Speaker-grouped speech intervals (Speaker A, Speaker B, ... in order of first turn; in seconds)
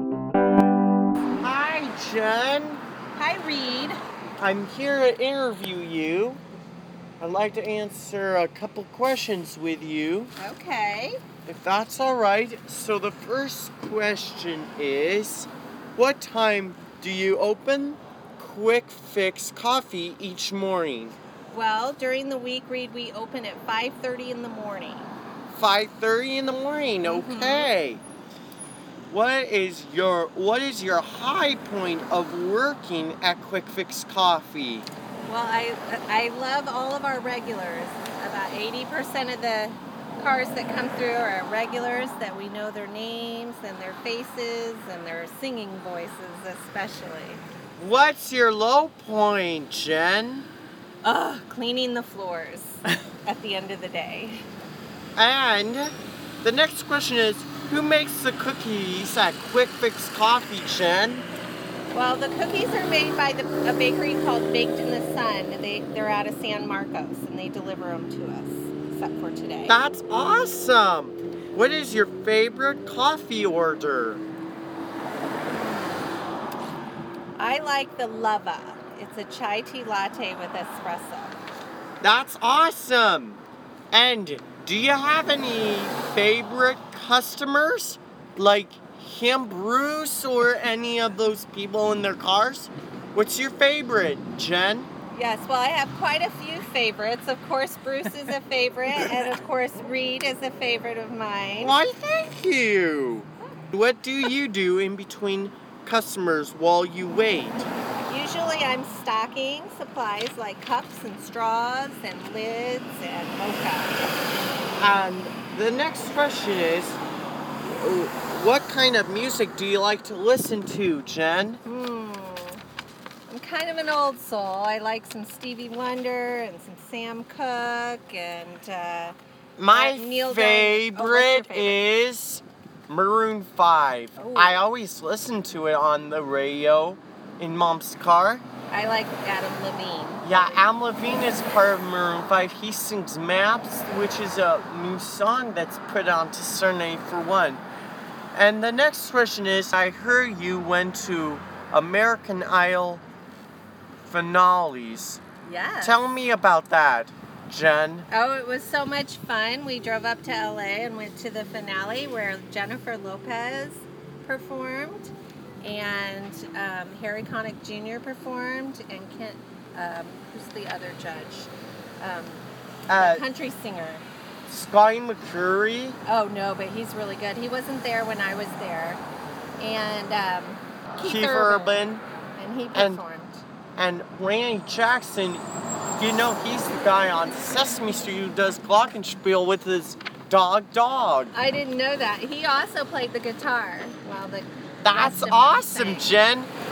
Speaker A: 1.4-2.8, 4.4-6.4, 7.2-10.3, 11.4-21.1, 25.5-28.0, 29.1-34.9, 47.8-50.5, 55.2-61.2, 69.7-74.2, 82.0-83.4, 83.9-94.9, 101.6-107.7, 114.8-117.0, 117.6-121.6, 129.6-138.4, 140.2-147.6, 148.3-153.0, 154.0-155.2, 155.8-158.1, 172.9-173.2, 174.5-176.0, 181.0-182.0, 182.7-183.0, 183.8-185.4, 186.0-191.3, 194.8-196.5
Speaker B: 3.1-4.0, 10.4-11.2, 21.5-25.1, 27.0-27.7, 35.2-47.4, 51.0-54.4, 61.9-69.8, 75.6-76.0, 77.4-81.4, 95.1-101.7, 108.0-114.1, 121.6-122.6, 123.3-129.2, 129.7-131.8, 134.2-134.6, 138.7-140.6, 155.4-156.0, 158.1-171.5, 172.0-174.0, 176.1-179.0, 179.6-181.8, 182.4-183.4, 191.3-196.1